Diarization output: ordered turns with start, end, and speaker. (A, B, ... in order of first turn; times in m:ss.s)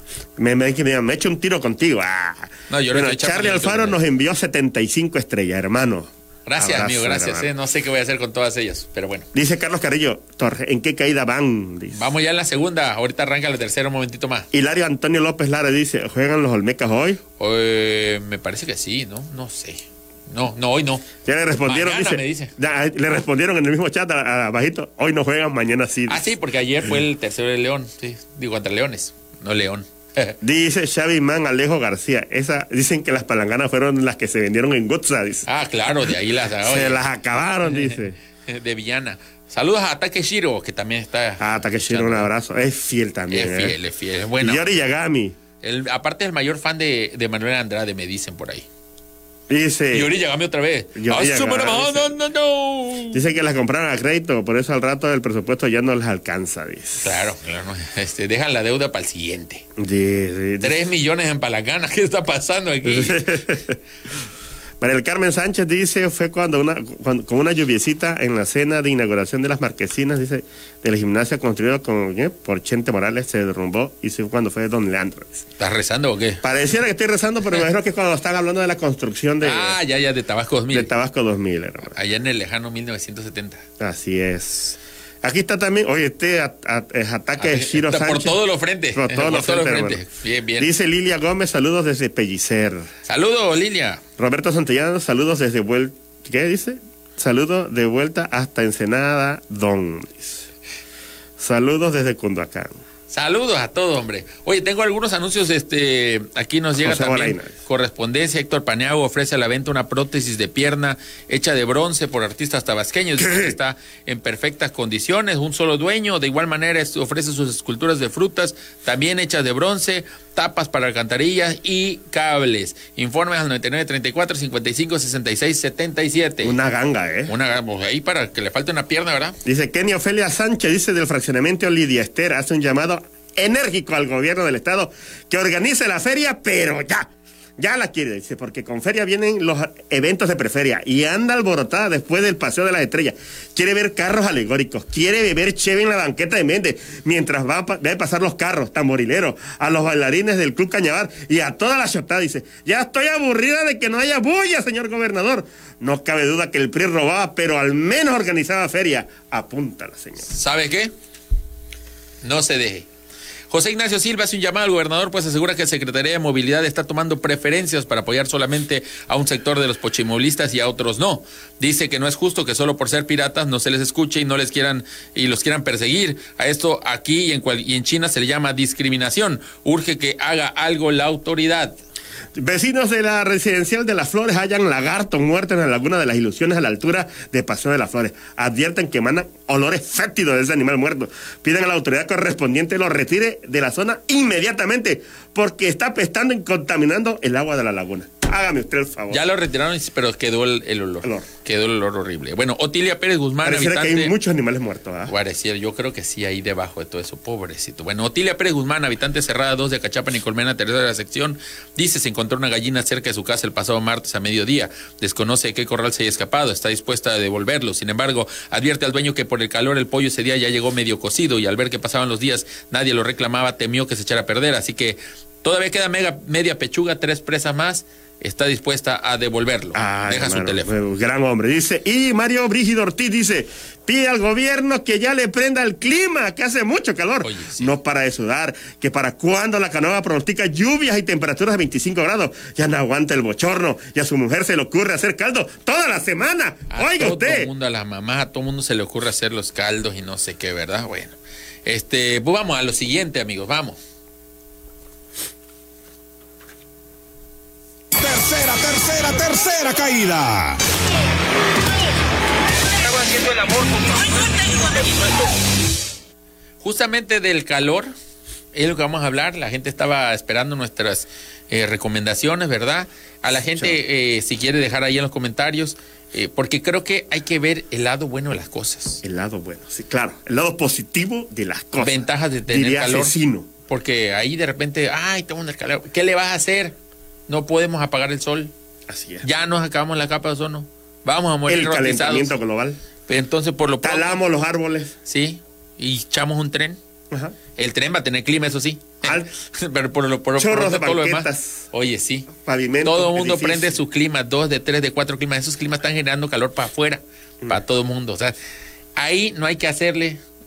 0:00.4-0:07.5 A
0:02.7-0:04.0 B
0:06.5-0:09.3 B
0:09.3-0:12.0 A
0:11.9-0:14.5 B
0:14.5-0:17.2 A
0:17.4-0:21.1 B
0:21.2-0:26.3 A
0:21.7-0:22.5 B
0:26.1-0:30.4 B
0:30.4-0:35.5 A
0:35.5-0:37.0 B
0:36.6-0:38.2 A
0:37.7-0:42.3 B
0:41.4-0:43.8 A
0:43.3-0:44.6 B
0:44.4-0:45.4 A
0:45.6-0:48.7 B
0:49.5-0:50.1 A
0:49.9-0:53.2 B
0:51.0-0:52.1 A
0:53.1-0:57.2 A
0:57.0-0:59.6 B
0:59.8-1:00.8 A
1:00.6-1:03.5 B
1:02.8-1:03.8 A
1:04.8-1:15.4 A
1:15.6-1:16.4 B
1:16.4-1:19.8 A
1:19.4-1:20.9 B
1:20.7-1:21.9 A
1:21.9-1:23.7 B
1:23.8-1:28.4 A
1:27.4-1:30.7 B
1:28.9-1:30.0 A
1:30.6-1:32.9 A
1:33.1-1:34.0 B
1:34.2-1:40.5 A
1:41.4-1:42.8 A
1:43.1-2:06.6 B
1:46.8-1:47.5 A
1:53.2-1:53.6 A
2:06.4-2:07.3 A
2:07.3-2:09.4 B
2:09.4-2:40.3 A
2:40.3-2:40.9 B
2:42.2-2:42.9 B
2:43.5-3:01.8 B
3:02.4-3:19.2 A
3:19.1-3:24.1 B
3:23.4-3:25.1 A
3:25.1-3:50.8 B
3:49.8-4:07.5 A
3:57.2-3:57.8 B
4:06.7-4:13.8 B
4:18.0-4:20.6 C
4:26.6-4:27.9 B
4:28.5-4:39.0 B
4:39.0-4:43.5 A
4:41.8-4:43.2 B
4:43.7-4:46.8 B
4:47.3-4:48.5 B
4:48.9-4:49.3 A
4:49.2-4:52.4 B
4:51.5-4:52.8 A
4:53.1-4:54.2 B
4:53.8-4:55.0 A
4:55.1-4:56.8 B
4:57.1-4:57.4 A
4:57.6-5:02.3 B
4:59.0-4:59.3 A
5:00.4-5:01.7 A
5:02.3-5:03.8 A
5:02.8-5:08.4 B
5:09.0-5:10.2 B